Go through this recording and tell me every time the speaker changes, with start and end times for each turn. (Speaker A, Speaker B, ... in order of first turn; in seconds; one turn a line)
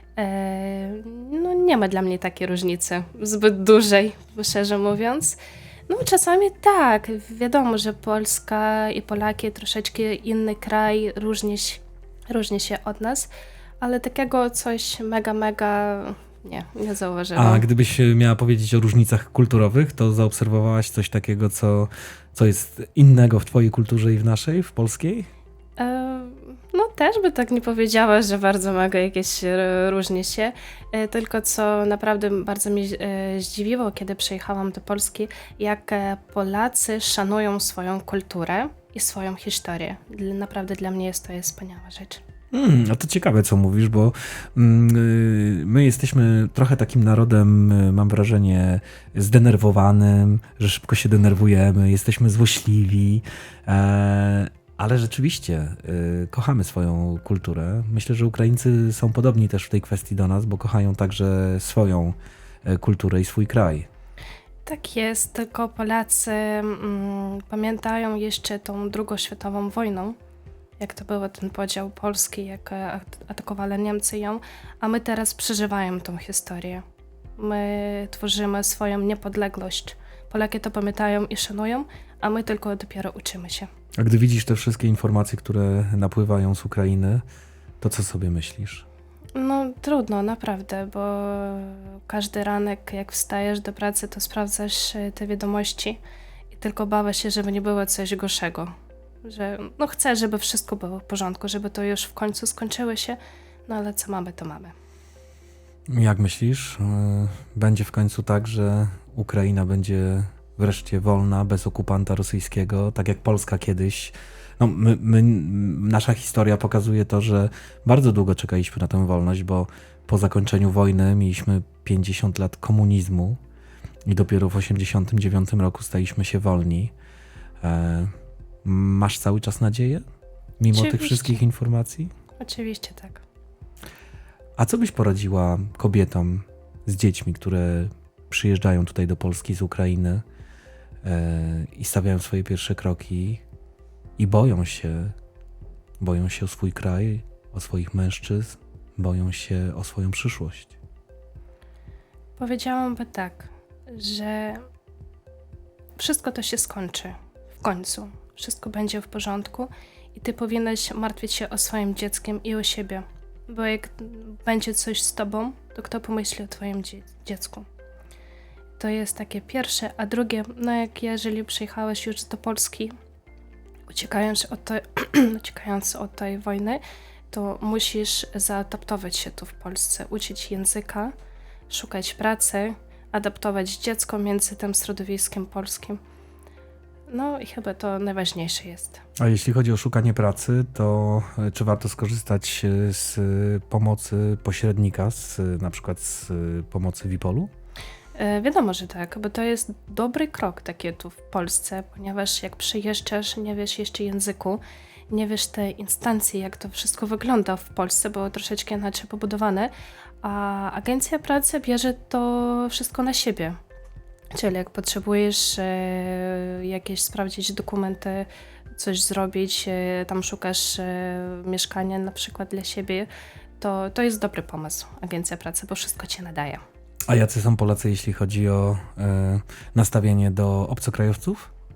Speaker A: 0.1-5.4
Speaker A: 5.9-13.3
Speaker A: 13.8-17.6
Speaker B: 17.3-25.3
Speaker A: 25.8-42.2
Speaker B: 42.5-63.9
Speaker A: 64.7-70.2
Speaker A: 70.8-76.8
Speaker A: 77.4-83.7
Speaker B: 84.0-87.2
Speaker B: 87.8-88.8
Speaker A: 89.3-96.0
Speaker A: 96.5-98.7
Speaker A: 99.2-104.7
Speaker B: 105.9-123.4
Speaker B: 124.0-126.9
Speaker B: 127.6-128.1
Speaker B: 128.6-130.0
Speaker B: 130.6-132.1
Speaker A: 130.7-131.4
Speaker A: 132.4-133.2
Speaker B: 134.6-140.2
Speaker B: 141.0-143.4
Speaker B: 144.2-145.1
Speaker B: 146.0-150.7
Speaker A: 152.4-154.6
Speaker A: 156.0-167.7
Speaker A: 168.8-172.9
Speaker A: 173.9-176.8
Speaker A: 177.3-181.1
Speaker A: 181.7-186.0
Speaker A: 187.1-189.0
Speaker B: 189.2-197.5
Speaker A: 198.2-209.7
Speaker A: 210.2-213.6
Speaker A: 214.3-226.6
Speaker B: 227.1-231.5